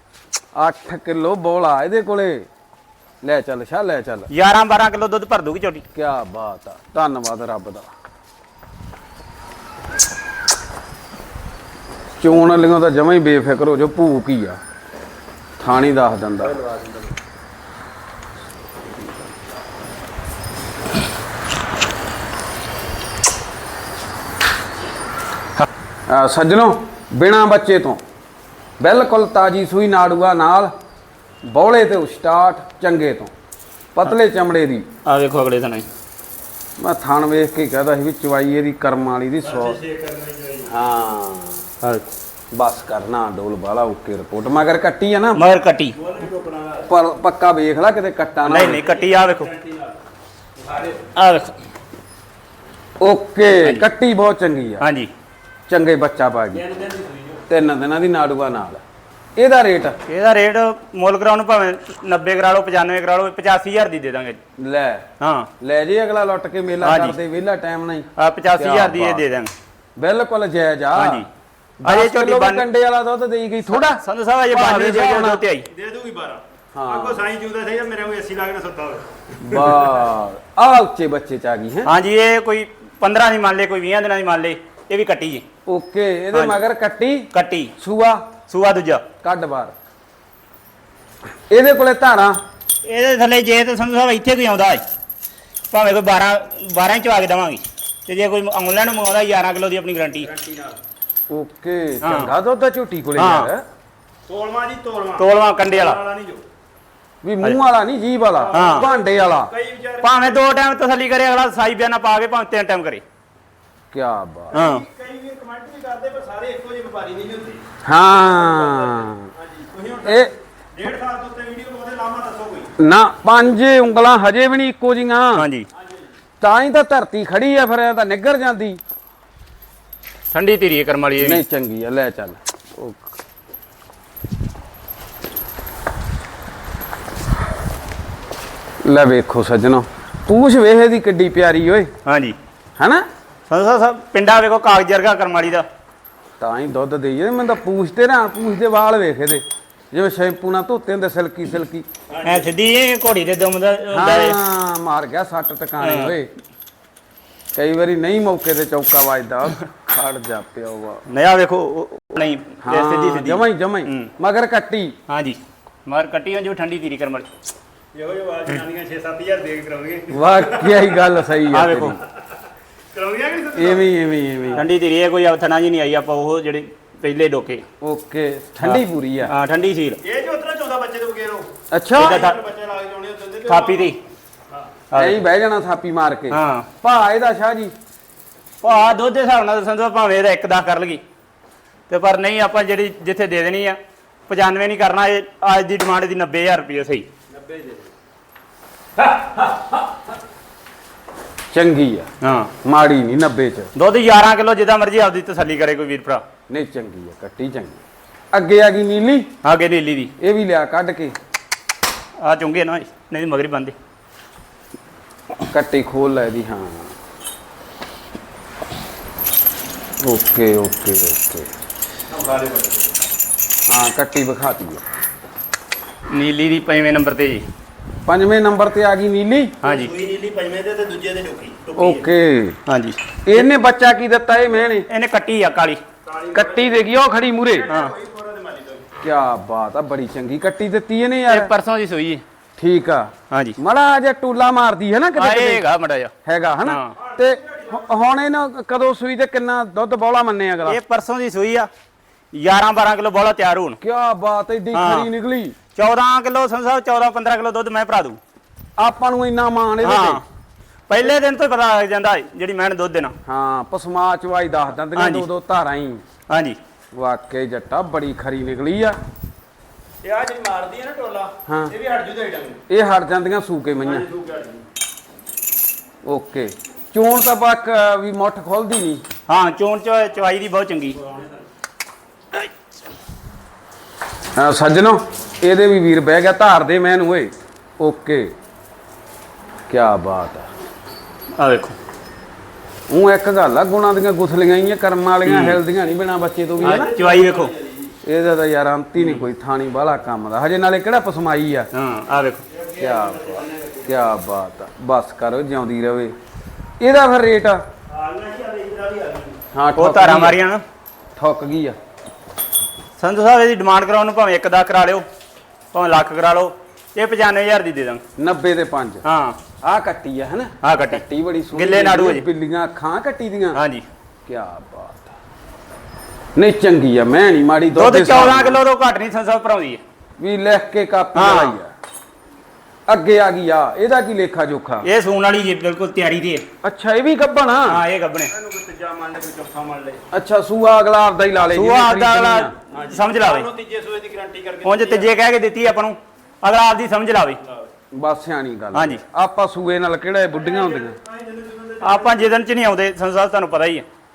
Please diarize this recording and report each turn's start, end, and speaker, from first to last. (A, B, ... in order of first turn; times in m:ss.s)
0:00.6-0:02.5 A
0:03.2-0:04.3 A
0:04.3-0:05.8 B
0:05.9-0:07.9 A
0:12.2-0:14.6 A
0:15.6-0:16.6 A
0:16.6-0:16.9 C
0:26.1-0:28.0 A
0:28.8-0:30.7 A
0:31.5-0:33.3 A
0:33.9-0:34.9 A
0:35.0-0:35.9 B
0:36.8-0:39.8 A
0:39.4-0:40.7 C
0:40.7-0:41.7 A
0:41.8-0:42.1 B
0:42.5-0:45.4 A
0:45.3-0:46.0 B
0:46.0-0:46.9 C
0:46.9-0:48.8 A
0:48.4-0:49.5 B
0:48.8-0:50.0 C
0:50.6-0:51.1 C
0:51.1-0:51.5 B
0:53.0-0:54.8 A
0:53.6-0:53.9 B
0:54.8-0:55.1 B
0:55.7-0:56.6 A
0:56.5-0:57.4 C
0:57.5-0:58.8 A
0:59.4-1:00.0 A
1:00.1-1:04.4 B
1:04.6-1:05.1 A
1:05.2-1:05.5 B
1:05.6-1:09.2 A
1:06.8-1:07.2 B
1:08.2-1:09.5 B
1:10.0-1:11.2 A
1:11.0-1:11.3 B
1:11.8-1:15.4 A
1:11.8-1:12.7 B
1:13.7-1:15.7 B
1:15.6-1:19.8 C
1:16.7-1:17.2 A
1:19.4-1:21.9 A
1:21.8-1:25.4 B
1:25.7-1:28.3 A
1:26.3-1:26.6 B
1:27.3-1:27.7 B
1:28.5-1:29.0 B
1:29.2-1:29.7 A
1:31.5-1:32.4 A
1:32.8-1:34.8 B
1:35.7-1:40.3 B
1:40.2-1:40.8 C
1:41.3-1:43.6 A
1:42.0-1:42.3 B
1:43.2-1:43.5 B
1:44.3-1:46.4 C
1:45.2-1:46.0 B
1:47.2-1:49.5 A
1:48.4-1:50.4 C
1:48.5-1:48.9 B
1:50.0-1:53.0 B
1:53.9-1:54.6 A
1:54.5-2:02.7 C
1:54.5-1:54.8 B
1:57.8-1:59.3 A
2:00.0-2:00.3 A
2:02.8-2:05.5 A
2:05.4-2:05.7 B
2:05.8-2:06.1 C
2:06.4-2:08.8 A
2:10.3-2:11.4 B
2:11.2-2:13.0 A
2:18.8-2:21.9 A
2:22.0-2:22.4 B
2:22.8-2:23.0 A
2:23.5-2:25.6 B
2:26.4-2:31.9 A
2:32.1-2:32.5 C
2:32.2-2:34.4 B
2:33.9-2:36.3 A
2:35.8-2:36.1 B
2:37.6-2:41.0 A
2:41.1-2:44.1 B
2:42.6-2:45.0 A
2:45.1-2:47.3 B
2:47.9-2:51.1 C
2:50.1-2:52.0 A
2:51.5-2:52.0 B
2:52.9-2:53.9 C
2:53.5-2:54.6 A
2:54.5-2:57.6 B
2:57.8-2:59.3 A
2:58.6-3:00.0 B
3:00.0-3:03.9 C
3:01.7-3:02.2 A
3:02.0-3:02.4 B
3:03.5-3:04.0 B
3:04.9-3:05.2 B
3:04.9-3:07.7 A
3:06.3-3:06.7 B
3:08.6-3:11.0 B
3:11.9-3:17.1 B
3:17.3-3:17.9 C
3:19.0-3:19.8 C
3:21.5-3:22.1 A
3:22.2-3:22.5 B
3:22.6-3:23.7 A
3:23.8-3:26.2 B
3:26.5-3:27.8 A
3:28.3-3:29.3 A
3:29.4-3:30.1 B
3:30.2-3:31.1 A
3:32.2-3:33.8 B
3:35.5-3:36.9 A
3:40.0-3:41.5 A
3:42.1-3:42.9 C
3:43.7-3:44.8 A
3:46.1-3:47.5 B
3:48.1-3:49.6 A
3:49.6-3:49.9 B
3:49.6-3:52.0 C
3:51.8-3:52.6 A
3:52.6-3:53.5 B
3:53.2-3:54.9 A
3:54.9-3:55.8 B
3:56.0-3:56.8 C
3:56.3-3:57.7 A
3:57.5-3:58.9 C
3:59.0-4:01.5 A
4:01.3-4:02.2 B
4:02.6-4:05.6 A
4:03.3-4:03.6 B
4:05.2-4:06.1 B
4:06.2-4:10.8 A
4:06.6-4:06.9 B
4:07.0-4:07.9 C
4:10.6-4:11.7 B
4:12.3-4:13.8 B
4:13.8-4:15.5 A
4:14.7-4:15.1 B
4:15.8-4:18.2 B
4:18.8-4:20.2 A
4:19.8-4:20.2 B
4:20.9-4:23.1 B
4:23.2-4:26.0 A
4:25.0-4:25.3 B
4:26.3-4:26.6 B
4:26.9-4:29.0 A
4:30.0-4:32.6 C
4:31.5-4:31.8 A
4:32.7-4:34.1 A
4:33.8-4:34.6 C
4:36.0-4:39.0 A
4:39.3-4:41.0 B
4:41.0-4:41.5 C
4:44.4-4:48.3 A
4:49.7-4:50.5 A
4:51.4-4:51.8 B
4:52.9-4:56.9 A
4:55.2-4:55.6 B
4:56.6-4:57.5 B
4:56.6-4:57.9 C
4:58.0-5:01.7 A
4:59.0-4:59.2 B
5:01.7-5:02.4 B
5:02.5-5:04.0 C
5:02.8-5:06.1 A
5:06.8-5:07.6 A
5:07.9-5:09.4 C
5:09.5-5:10.4 A
5:09.8-5:10.6 B
5:11.2-5:11.8 A
5:13.0-5:15.0 B
5:15.7-5:18.0 B
5:18.2-5:19.0 A
5:19.0-5:19.4 B
5:19.6-5:23.6 A
5:20.6-5:21.0 B
5:21.5-5:22.2 B
5:23.5-5:23.9 B
5:24.2-5:25.1 A
5:26.4-5:28.6 A
5:27.8-5:29.8 B
5:30.2-5:31.7 A
5:31.1-5:31.6 B
5:32.9-5:34.9 A
5:34.8-5:36.4 B
5:36.6-5:37.8 A
5:37.7-5:38.3 B
5:38.3-5:40.0 C
5:40.1-5:42.5 A
5:41.4-5:43.5 B
5:42.7-5:45.1 C
5:44.6-5:47.4 B
5:47.9-5:51.0 A
5:48.7-5:49.0 B
5:50.3-5:52.4 C
5:51.8-5:53.9 B